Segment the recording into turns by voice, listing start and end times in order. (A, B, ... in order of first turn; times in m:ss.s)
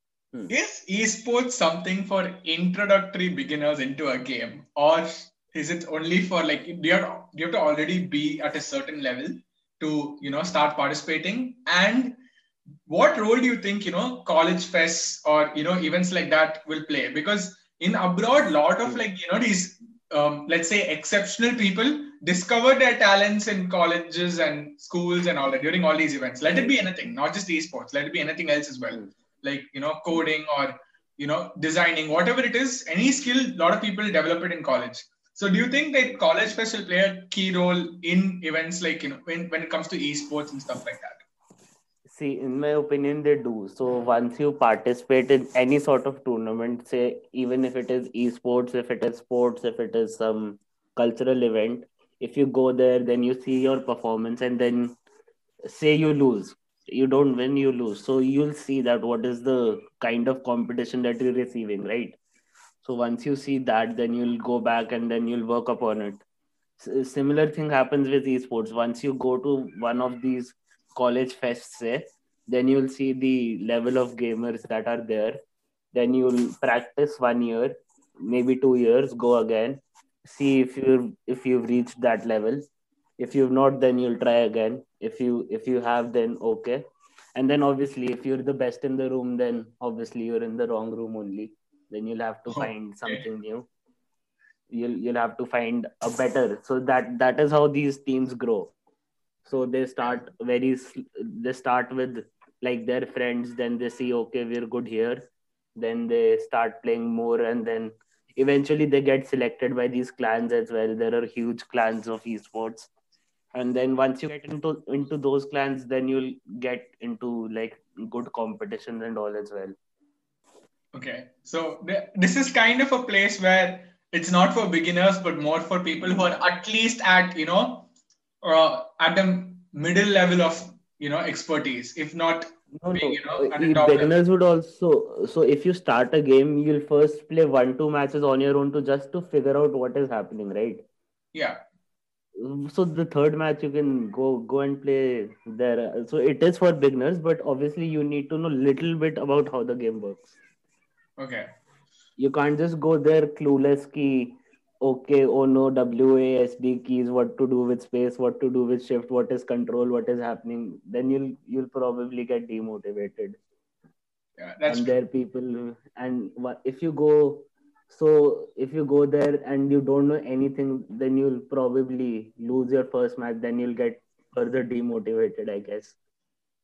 0:00.5-0:12.2 A
0:12.9-0:41.2 A
0:42.1-0:55.0 B
0:55.7-1:02.2 B
1:02.8-1:06.2 B
1:06.8-1:15.4 B
1:15.9-1:22.6 B
1:23.2-1:26.8 B
1:27.4-1:33.7 B
1:32.5-1:33.2 A
1:34.7-1:38.7 B
1:39.4-1:45.2 B
1:45.8-1:52.9 B
1:53.5-1:59.8 B
2:00.9-2:07.9 A
2:08.4-2:14.1 A
2:12.7-2:20.8 B
2:21.3-2:21.6 A
2:22.4-2:30.4 B
2:31.2-2:31.5 A
2:32.2-2:43.4 B
2:44.4-2:45.0 A
2:44.7-2:56.0 B